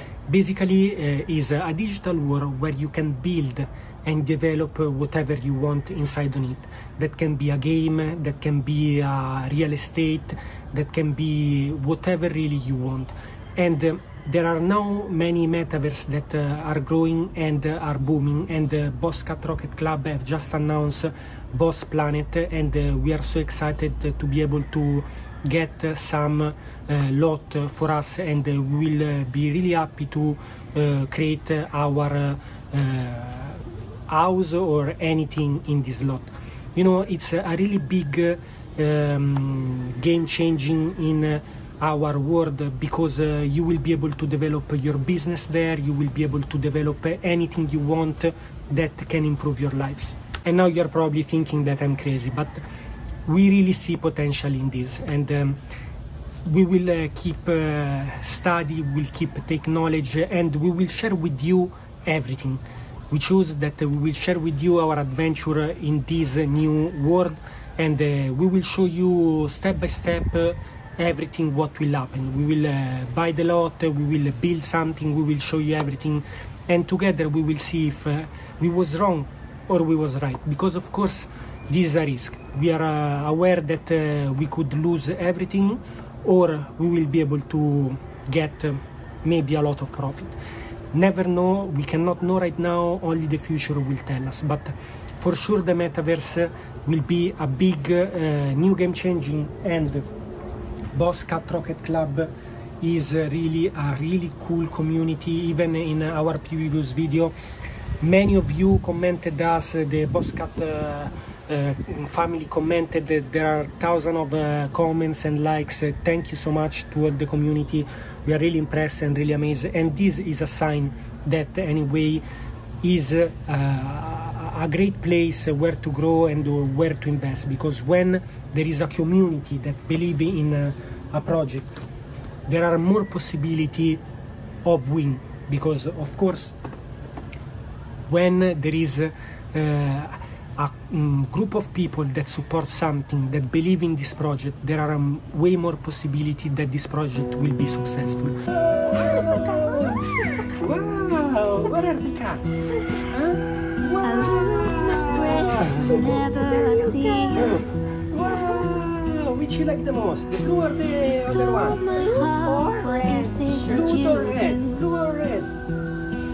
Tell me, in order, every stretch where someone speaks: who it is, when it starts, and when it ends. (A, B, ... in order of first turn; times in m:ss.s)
0:00.3-0:52.6 A
0:53.3-0:55.6 A
0:56.4-1:30.4 A
1:30.9-1:40.1 A
1:40.9-1:42.3 A
1:42.8-1:47.3 A
1:48.0-2:02.2 A
2:02.8-2:11.8 A
2:12.5-2:14.0 A
2:14.6-2:16.6 A
2:18.1-2:32.4 A
2:32.7-2:33.1 B
2:33.1-2:36.3 A
2:34.0-2:37.6 C
2:35.7-2:37.6 B
2:37.4-2:41.8 A
2:41.1-2:44.8 C
2:42.1-2:43.4 B
2:42.5-2:45.5 A